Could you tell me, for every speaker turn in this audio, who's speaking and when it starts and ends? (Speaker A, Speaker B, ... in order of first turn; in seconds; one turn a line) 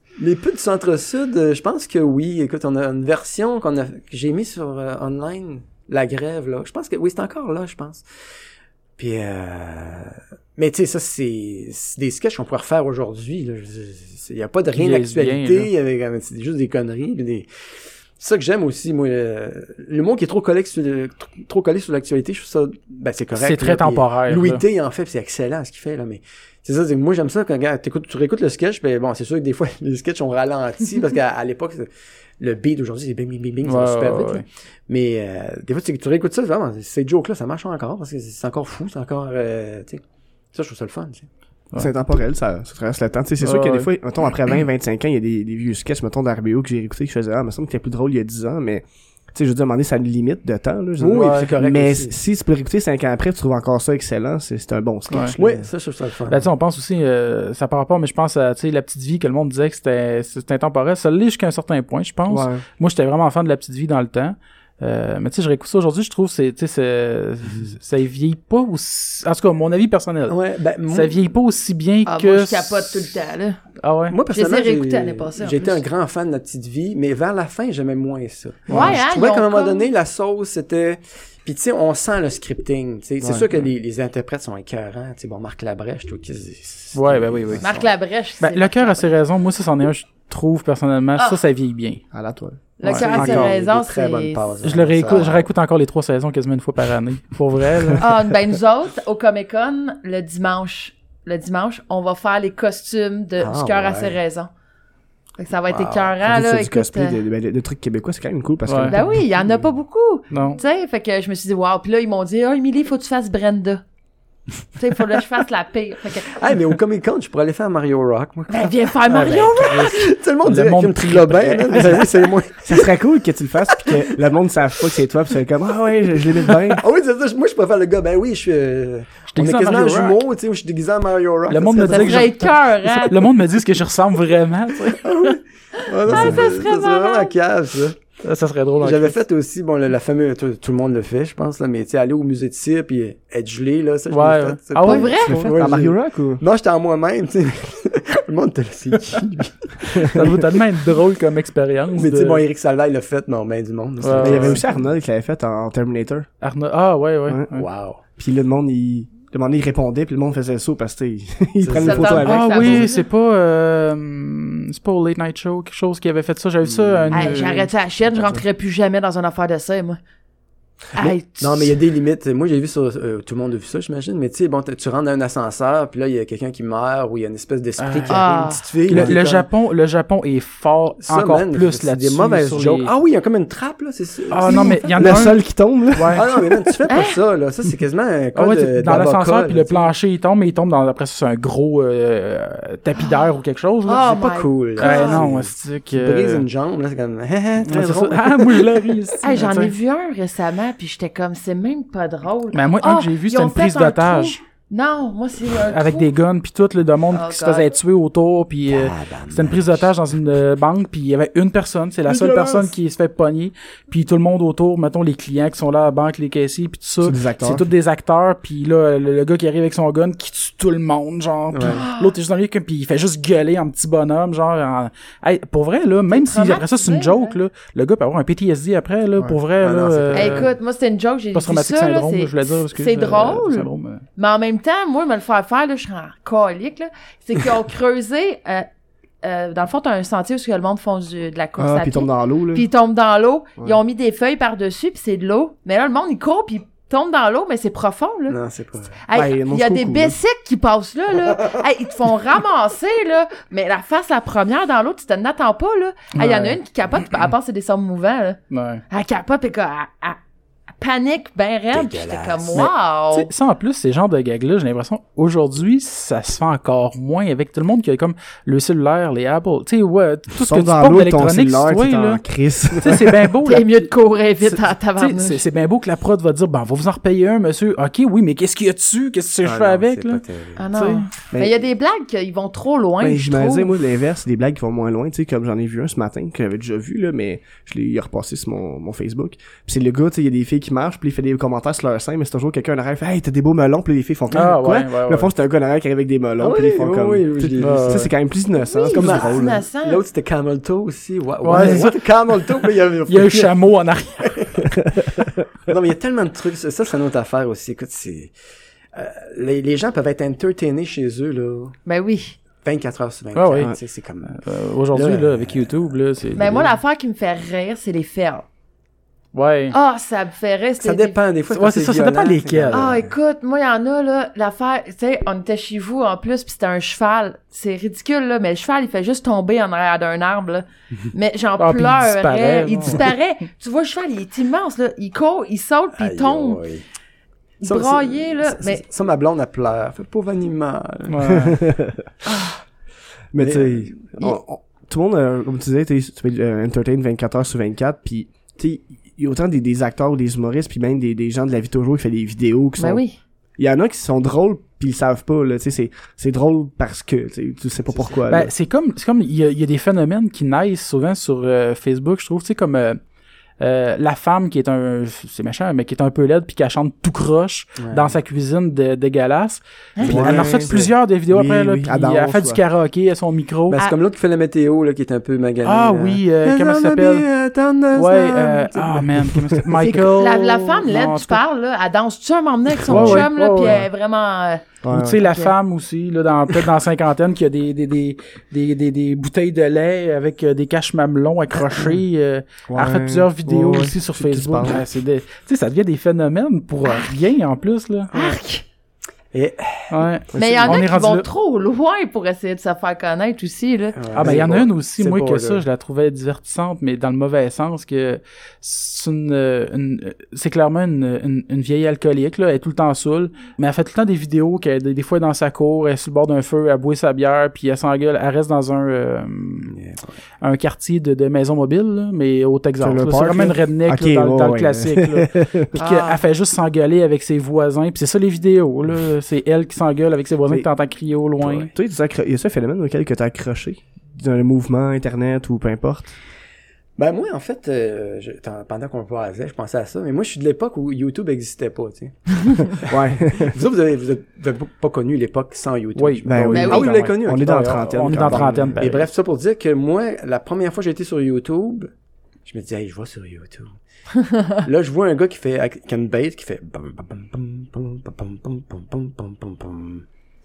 Speaker A: 0.2-8.0
Speaker A: 9.0-17.5
Speaker B: 14.7-15.7
Speaker A: 18.2-41.3
Speaker B: 23.4-24.6
Speaker B: 33.6-34.4
Speaker C: 41.8-55.7
Speaker B: 43.4-43.9
Speaker A: 51.0-52.1
Speaker B: 51.2-51.5
Speaker B: 55.1-55.4
Speaker A: 55.4-56.4
Speaker B: 56.3-70.4
Speaker C: 62.3-62.6
Speaker A: 70.3-71.2
Speaker B: 70.9-73.2
Speaker D: 72.1-73.6
Speaker B: 73.8-74.2
Speaker A: 74.1-87.9
Speaker D: 74.3-75.8
Speaker B: 78.7-79.0
Speaker D: 78.7-79.9
Speaker C: 78.7-79.0
Speaker B: 86.9-87.7
Speaker D: 87.6-89.1
Speaker B: 88.4-92.0
Speaker C: 92.1-93.5
Speaker D: 92.8-95.4
Speaker A: 92.9-95.5
Speaker B: 94.6-98.1
Speaker D: 98.0-104.5
Speaker A: 103.4-104.2
Speaker D: 105.4-107.2
Speaker A: 105.7-106.2
Speaker C: 106.2-109.2
Speaker B: 108.7-109.0
Speaker D: 108.9-113.8
Speaker B: 110.3-110.6
Speaker D: 114.8-116.4
Speaker A: 116.3-123.0
Speaker D: 118.5-120.1
Speaker B: 119.1-122.1
Speaker C: 122.6-126.8
Speaker A: 126.7-132.3
Speaker B: 129.3-130.2
Speaker B: 131.5-135.4
Speaker D: 131.8-133.2
Speaker A: 134.9-138.0
Speaker D: 136.0-137.3
Speaker C: 136.1-136.5
Speaker B: 138.2-139.2
Speaker A: 138.8-150.6
Speaker B: 144.1-145.2
Speaker D: 144.8-145.6
Speaker C: 145.2-146.4
Speaker B: 150.0-152.4
Speaker A: 151.9-154.8
Speaker B: 154.0-154.7
Speaker C: 154.2-156.3
Speaker B: 156.4-157.7
Speaker A: 157.5-158.0
Speaker C: 158.2-162.9
Speaker A: 161.6-162.3
Speaker D: 161.7-163.1
Speaker B: 162.2-167.7
Speaker A: 166.6-167.6
Speaker D: 167.1-170.0
Speaker D: 171.0-171.8
Speaker A: 171.4-179.5
Speaker B: 177.8-178.2
Speaker D: 178.1-178.6
Speaker B: 178.9-182.9
Speaker A: 181.0-185.2
Speaker B: 184.3-186.2
Speaker D: 184.5-184.9
Speaker C: 185.0-186.7
Speaker A: 186.1-189.9
Speaker D: 186.9-187.2
Speaker B: 188.3-194.1
Speaker D: 193.9-195.2
Speaker A: 194.0-199.0
Speaker B: 194.8-196.4
Speaker B: 197.7-199.7
Speaker D: 199.2-206.1
Speaker B: 202.5-204.4
Speaker B: 205.6-230.5
Speaker D: 207.1-207.7
Speaker A: 208.7-209.9
Speaker A: 212.1-212.7
Speaker C: 217.0-217.7
Speaker A: 221.5-221.8
Speaker D: 221.7-222.2
Speaker D: 226.1-227.4
Speaker A: 229.6-230.5
Speaker D: 230.1-238.7
Speaker B: 231.3-234.0
Speaker D: 239.2-248.4
Speaker C: 241.6-242.7
Speaker A: 248.3-249.0
Speaker D: 249.0-260.2
Speaker C: 249.1-250.2
Speaker B: 256.1-256.6
Speaker B: 258.5-258.8
Speaker D: 260.8-263.3
Speaker A: 261.7-262.6
Speaker B: 262.5-273.7
Speaker C: 270.4-273.3
Speaker D: 273.4-275.4
Speaker B: 274.4-281.1
Speaker A: 279.4-280.6
Speaker D: 280.6-283.7
Speaker C: 283.0-299.6
Speaker B: 294.3-295.3
Speaker A: 296.4-298.1
Speaker B: 297.6-298.1
Speaker D: 298.6-300.0
Speaker A: 298.9-303.5
Speaker B: 301.4-304.6
Speaker A: 304.2-304.7
Speaker A: 305.7-308.3
Speaker A: 308.9-311.8
Speaker D: 311.9-312.4
Speaker A: 312.6-314.4
Speaker B: 313.4-313.8
Speaker B: 314.3-316.7
Speaker A: 314.9-316.7
Speaker D: 316.4-318.4
Speaker B: 319.3-319.8
Speaker D: 319.7-321.2
Speaker A: 320.8-323.1
Speaker B: 321.5-323.0
Speaker D: 322.7-336.6
Speaker B: 331.6-333.1
Speaker A: 336.0-336.9
Speaker A: 337.6-341.4
Speaker D: 337.6-338.8
Speaker B: 341.1-341.6
Speaker C: 341.4-342.1
Speaker C: 343.3-353.0
Speaker A: 343.4-344.2
Speaker D: 352.8-353.2
Speaker C: 353.6-358.5
Speaker A: 357.9-358.2
Speaker B: 358.3-363.0
Speaker B: 363.6-373.8
Speaker A: 367.8-368.2
Speaker D: 370.0-370.3
Speaker C: 370.0-372.6
Speaker A: 370.3-370.9
Speaker A: 373.7-379.1
Speaker B: 375.6-377.3
Speaker B: 377.9-381.4
Speaker C: 379.3-380.0
Speaker D: 380.0-385.5
Speaker C: 382.9-383.8
Speaker B: 382.9-383.8
Speaker C: 384.8-385.2
Speaker B: 384.9-398.4
Speaker C: 392.7-394.8
Speaker D: 396.9-397.1
Speaker D: 398.1-398.6
Speaker A: 399.3-400.0
Speaker B: 399.9-401.3
Speaker C: 400.3-400.8
Speaker D: 400.4-404.0
Speaker A: 404.0-405.6
Speaker B: 404.1-419.8
Speaker A: 419.7-420.2
Speaker B: 420.4-431.7
Speaker C: 422.8-425.8
Speaker D: 425.8-426.2
Speaker C: 431.4-436.2
Speaker A: 437.0-451.9
Speaker C: 442.9-443.6
Speaker B: 446.0-449.1
Speaker C: 446.3-448.8
Speaker D: 446.5-446.8
Speaker A: 452.4-453.8
Speaker A: 454.6-460.1